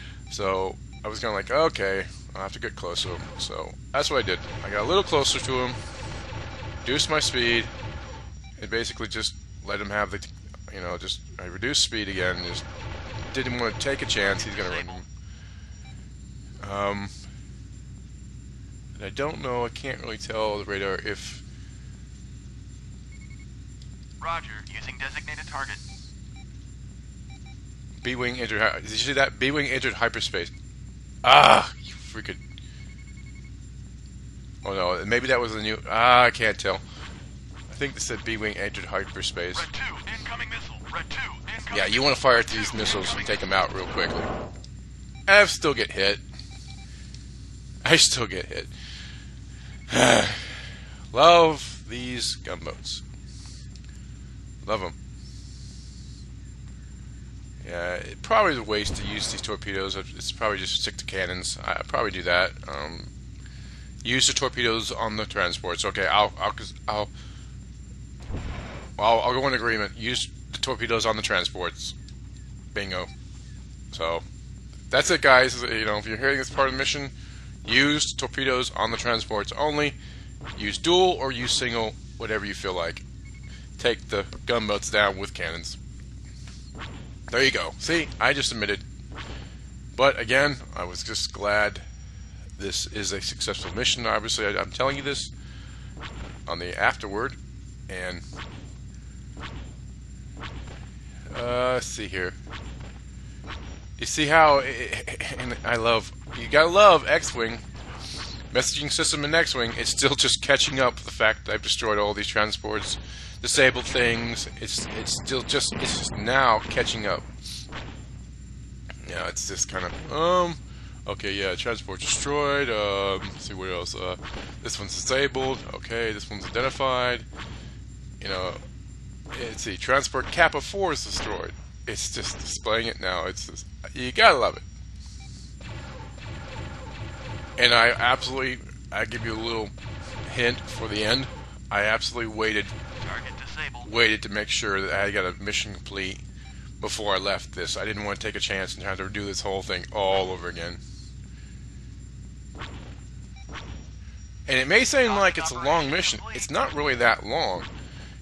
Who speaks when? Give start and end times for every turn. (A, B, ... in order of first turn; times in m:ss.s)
0:00.3-0:05.8 A
0:06.8-0:07.7 A
0:08.6-0:12.6 A
0:13.3-0:15.1 A
0:16.6-0:17.2 A
0:19.0-0:21.4 A
0:24.2-0:25.8 B
0:28.0-0:30.5 A
0:31.2-0:32.4 A
0:34.6-0:36.8 A
0:37.7-0:39.7 A
0:39.7-0:41.7 B
0:41.6-0:44.3 A
0:45.3-0:46.2 A
0:47.8-0:48.7 A
0:49.9-0:53.0 A
0:54.6-0:55.0 A
0:57.6-1:03.1 A
1:04.0-1:07.1 A
1:09.0-1:12.0 A
1:12.7-1:13.1 A
1:13.9-1:14.2 A
1:14.9-1:17.1 A
1:17.6-1:20.0 A
1:20.6-1:23.0 A
1:23.8-1:25.8 A
1:27.3-1:28.8 A
1:30.0-1:31.9 A
1:32.6-1:35.3 A
1:36.5-1:38.2 A
1:41.3-1:42.4 A
1:44.0-1:47.6 A
1:48.5-1:57.3 A
1:59.0-2:07.3 A
2:08.2-2:08.6 A
2:09.3-2:14.6 A
2:17.6-2:19.7 A
2:20.2-2:22.8 A
2:23.1-2:23.8 B
2:23.8-2:26.2 A
2:26.8-2:30.8 A
2:34.5-2:37.7 A